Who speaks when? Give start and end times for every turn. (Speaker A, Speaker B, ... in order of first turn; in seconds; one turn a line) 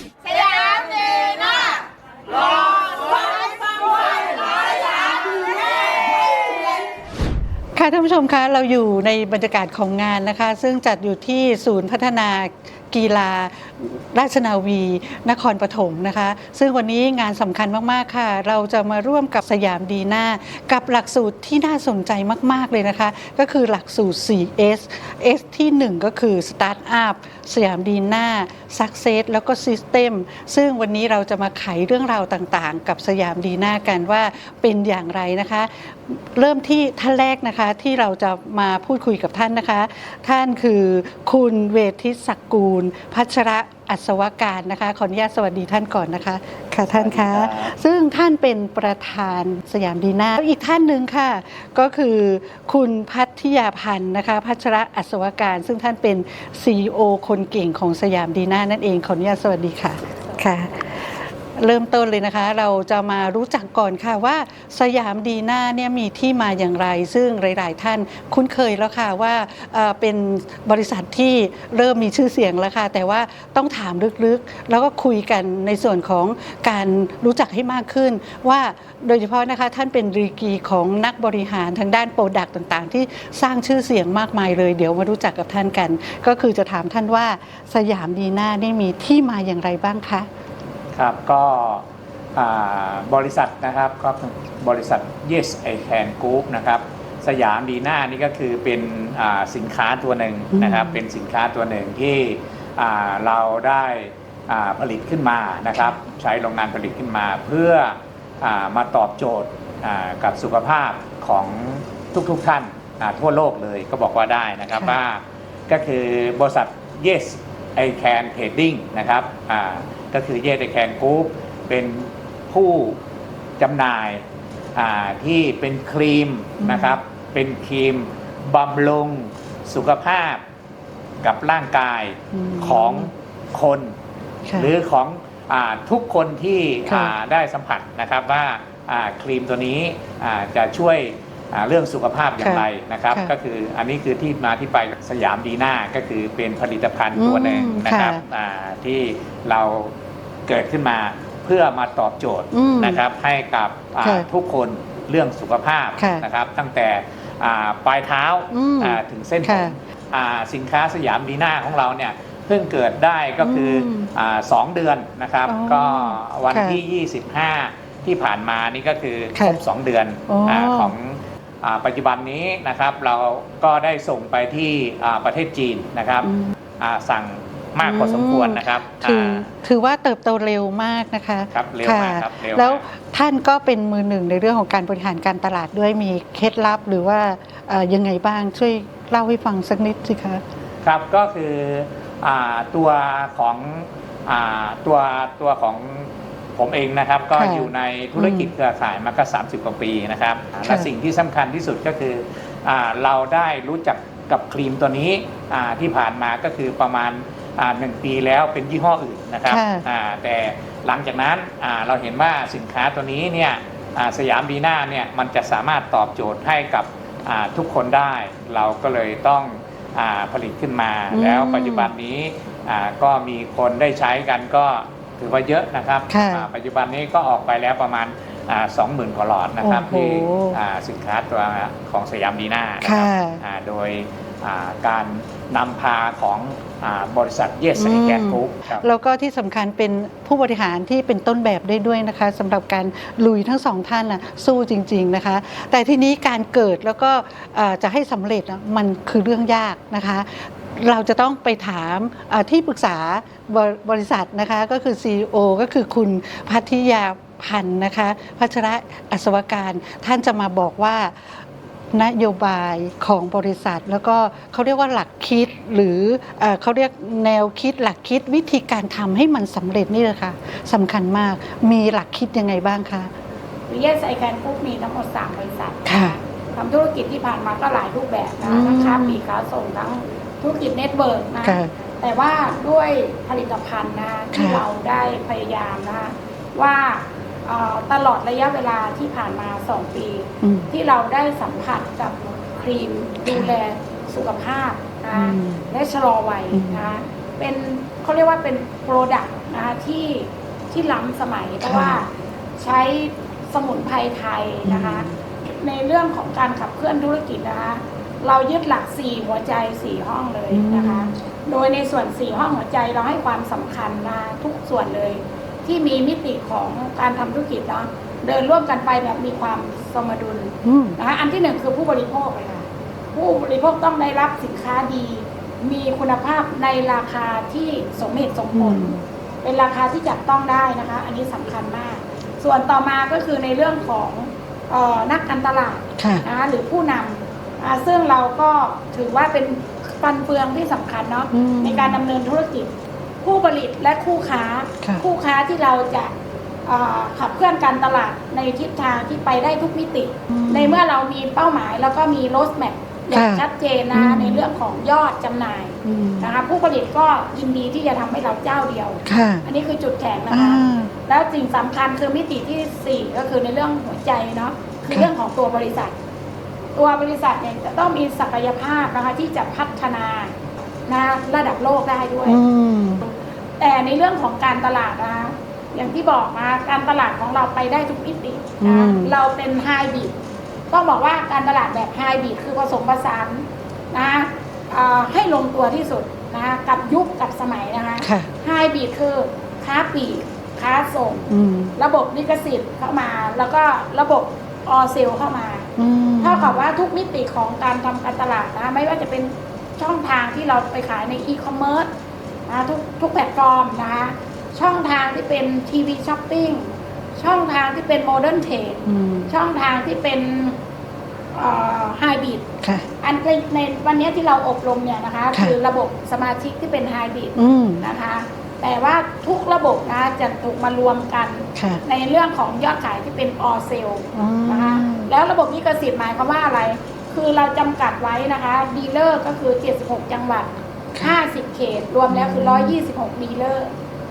Speaker A: 7.8-90.3
Speaker B: 46.9-47.7
Speaker B: 90.9-91.8
Speaker B: 92.3-123.0
Speaker A: 100.5-101.0
Speaker B: 123.6-124.2
Speaker B: 124.8-130.4
Speaker A: 126.6-127.0
Speaker B: 131.2-133.9
Speaker A: 132.3-133.1
Speaker A: 134.5-134.7
Speaker B: 134.6-149.9
Speaker A: 136.9-137.1
Speaker A: 142.4-143.3
Speaker A: 147.1-148.2
Speaker B: 150.5-179.5
Speaker A: 152.5-153.0
Speaker A: 154.0-154.3
Speaker A: 156.0-156.2
Speaker A: 158.5-159.7
Speaker A: 163.4-164.1
Speaker A: 165.4-166.8
Speaker A: 169.3-169.6
Speaker A: 170.3-170.9
Speaker A: 176.2-176.5
Speaker A: 177.8-190.4
Speaker B: 181.5-182.8
Speaker B: 190.8-238.8
Speaker A: 197.3-198.5
Speaker A: 200.6-200.9
Speaker A: 209.5-209.8
Speaker A: 221.1-221.9
Speaker A: 226.1-226.5
Speaker A: 229.6-230.6
Speaker A: 232.8-233.4
Speaker A: 237.8-261.3
Speaker A: 261.9-273.1
Speaker C: 273.7-342.7
Speaker A: 275.9-276.1
Speaker A: 278.4-279.2
Speaker A: 281.4-281.7
Speaker A: 284.3-284.6
Speaker A: 290.4-290.7
Speaker A: 293.2-293.5
Speaker A: 295.1-295.6
Speaker A: 296.5-296.9
Speaker A: 301.6-302.0
Speaker A: 304.6-305.1
Speaker A: 310.5-311.1
Speaker A: 320.6-321.0
Speaker A: 328.5-329.0
Speaker A: 336.0-336.2
Speaker A: 341.3-342.0
Speaker C: 343.2-346.1
Speaker C: 346.6-365.9
Speaker A: 350.3-350.8
Speaker A: 353.1-354.4
Speaker A: 355.8-356.3
Speaker A: 359.0-359.4
Speaker A: 360.3-360.9
Speaker C: 366.7-370.3
Speaker C: 370.9-372.4
Speaker A: 372.2-373.0
Speaker C: 373.6-380.1
Speaker A: 378.6-379.1
Speaker C: 380.7-395.7
Speaker A: 388.0-388.3
Speaker A: 391.3-391.7
Speaker A: 395.8-396.6
Speaker C: 396.2-401.9
Speaker C: 402.5-410.6
Speaker A: 408.9-409.3
Speaker C: 411.3-412.4
Speaker C: 413.0-433.7
Speaker A: 417.4-417.8
Speaker A: 421.5-421.8
Speaker A: 424.1-425.1
Speaker A: 432.1-432.8